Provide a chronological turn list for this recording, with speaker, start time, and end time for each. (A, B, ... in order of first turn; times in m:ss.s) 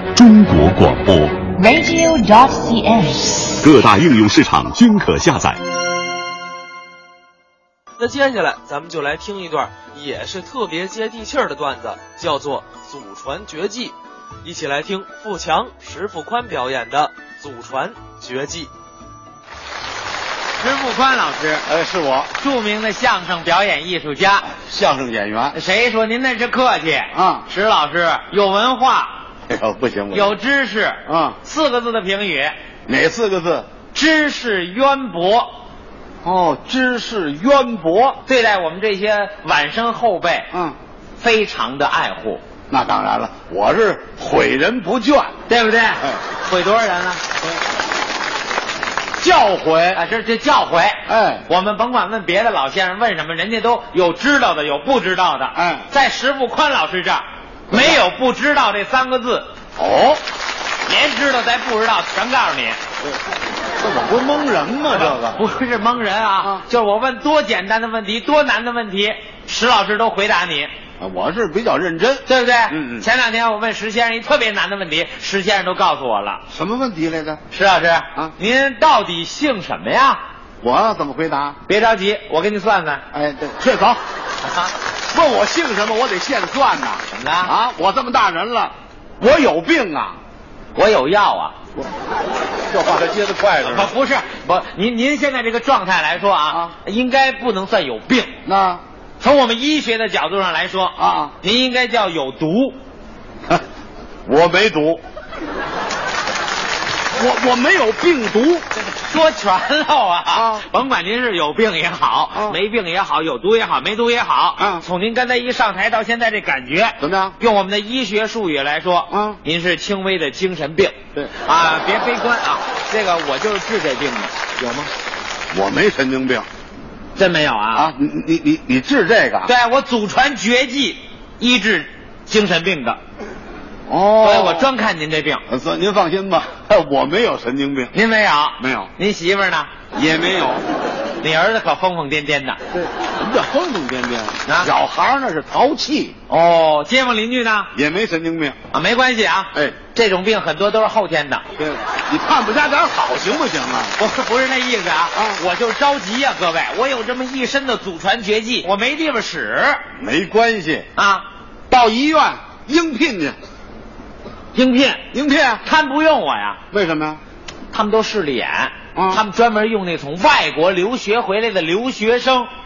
0:00.1-0:01.4 A
0:01.6-0:03.6 B
0:03.6-0:05.6 A
0:08.0-0:18.7 C
0:20.6-0:21.7 D
0:21.7-0:22.3 E
0:22.4-0:24.5 D
0:24.4-0:25.6 E
0:25.5-0:29.2 D
0:27.1-0:27.4 E
0:29.5-0:30.4 E
0:30.1-0:32.5 D
0:31.1-0:31.4 E
0:32.9-0:33.7 E
0:33.9-0:35.5 D
0:36.2-0:38.2 E
0:38.2-0:40.5 D
0:40.5-0:40.8 E
0:41.2-0:42.4 D
0:42.7-0:45.4 E
0:45.5-0:47.2 D
0:49.2-0:50.0 E
0:49.9-0:59.5 D
0:51.1-0:51.4 E
0:55.5-0:55.9 E
0:57.7-0:58.0 E
0:59.8-1:00.2 E
1:00.9-1:02.8 D
1:03.8-1:05.4 E
1:04.9-1:10.7 D
1:11.0-1:13.1 E
1:12.3-1:16.4 D
1:16.5-1:17.4 E
1:17.5-1:20.2 D
1:20.6-1:21.6 E
1:21.7-1:23.0 D
1:23.1-1:24.0 E
1:24.4-1:24.7 D
1:25.0-1:30.2 E
1:27.1-1:27.5 D
1:30.8-1:31.6 D
1:32.7-1:33.9 E
1:33.6-1:38.4 D
1:38.4-1:38.8 E
1:39.2-1:42.8 D
1:41.0-1:41.3 E
1:44.3-1:45.0 E
1:47.1-1:48.6 E
1:48.9-2:04.9 D
1:50.3-1:50.7 E
1:52.3-1:52.6 E
1:54.6-1:54.8 E
1:57.0-1:57.4 E
1:59.1-1:59.4 E
2:05.5-2:06.5 E
2:07.2-2:07.9 D
2:07.7-2:09.5 E
2:09.5-2:13.0 D
2:13.9-2:14.7 E
2:14.2-2:15.4 D
2:15.5-2:17.9 E
2:17.9-2:19.7 D
2:18.6-2:18.9 E
2:19.9-2:20.6 E
2:21.2-2:22.6 D
2:22.7-2:26.2 E
2:24.5-2:24.7 D
2:26.3-2:27.7 D
2:27.7-2:28.6 E
2:28.7-2:31.4 D
2:31.6-2:34.0 E
2:34.0-2:39.8 D
2:35.1-2:35.4 E
2:40.0-2:40.9 E
2:40.9-2:41.2 D
2:41.7-2:43.4 E
2:44.5-2:45.0 D
2:45.1-2:45.6 E
2:45.6-2:46.6 D
2:46.7-2:47.2 E
2:47.7-2:52.5 D
2:48.9-2:49.2 E